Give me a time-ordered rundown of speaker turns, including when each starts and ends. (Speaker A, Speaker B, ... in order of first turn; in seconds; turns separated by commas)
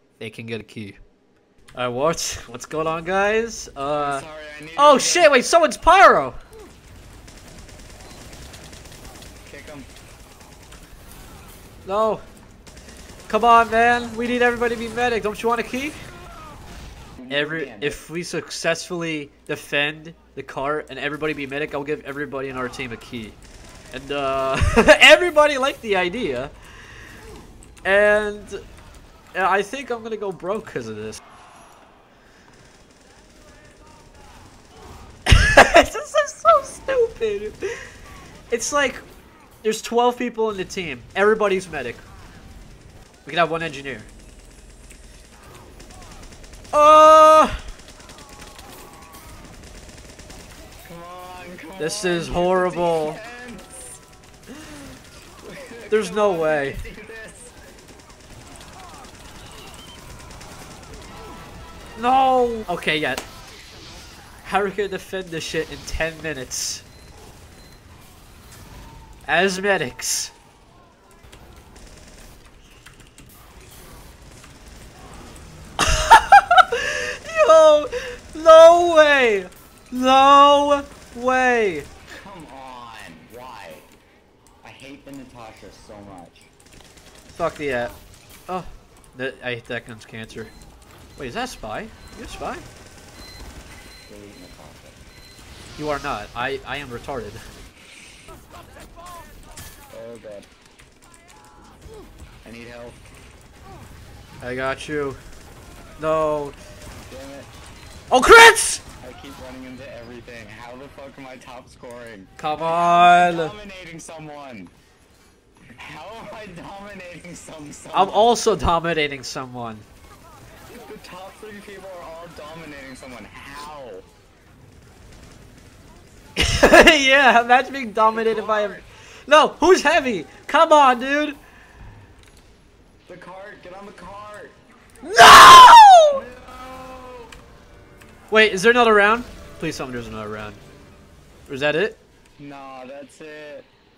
Speaker A: 0.2-1.0, Speaker A: 1.8-6.4, Speaker B: 3.9-5.3, Speaker B: 9.5-9.9, Speaker A: 11.8-12.2, Speaker A: 13.3-16.0, Speaker B: 17.2-18.0, Speaker A: 17.3-23.4, Speaker A: 23.9-26.5, Speaker A: 27.8-28.6, Speaker A: 29.4-31.2, Speaker A: 35.3-37.9, Speaker A: 38.5-39.0, Speaker A: 39.6-42.0, Speaker A: 43.2-44.1, Speaker A: 46.7-47.6, Speaker B: 50.8-54.0, Speaker A: 51.8-53.2, Speaker B: 55.4-57.5, Speaker A: 55.9-56.8, Speaker A: 62.0-63.2, Speaker A: 64.4-66.8, Speaker A: 69.3-70.3, Speaker A: 75.8-81.9, Speaker B: 82.1-83.9, Speaker B: 84.6-86.5, Speaker A: 87.3-87.9, Speaker A: 88.5-90.5, Speaker A: 91.2-92.7, Speaker B: 94.1-95.0, Speaker A: 95.8-97.4, Speaker B: 99.9-100.5, Speaker B: 102.4-103.0, Speaker A: 104.4-105.2, Speaker A: 106.0-106.5, Speaker B: 107.1-107.5, Speaker A: 108.1-108.8, Speaker B: 109.0-114.7, Speaker A: 112.4-113.6, Speaker B: 115.8-118.4, Speaker A: 117.9-119.8, Speaker B: 120.7-124.1, Speaker A: 126.4-131.4, Speaker B: 128.0-128.8, Speaker B: 133.1-134.6, Speaker A: 135.0-136.2, Speaker B: 136.1-137.3, Speaker A: 138.3-140.6, Speaker A: 141.5-142.0, Speaker B: 142.4-143.7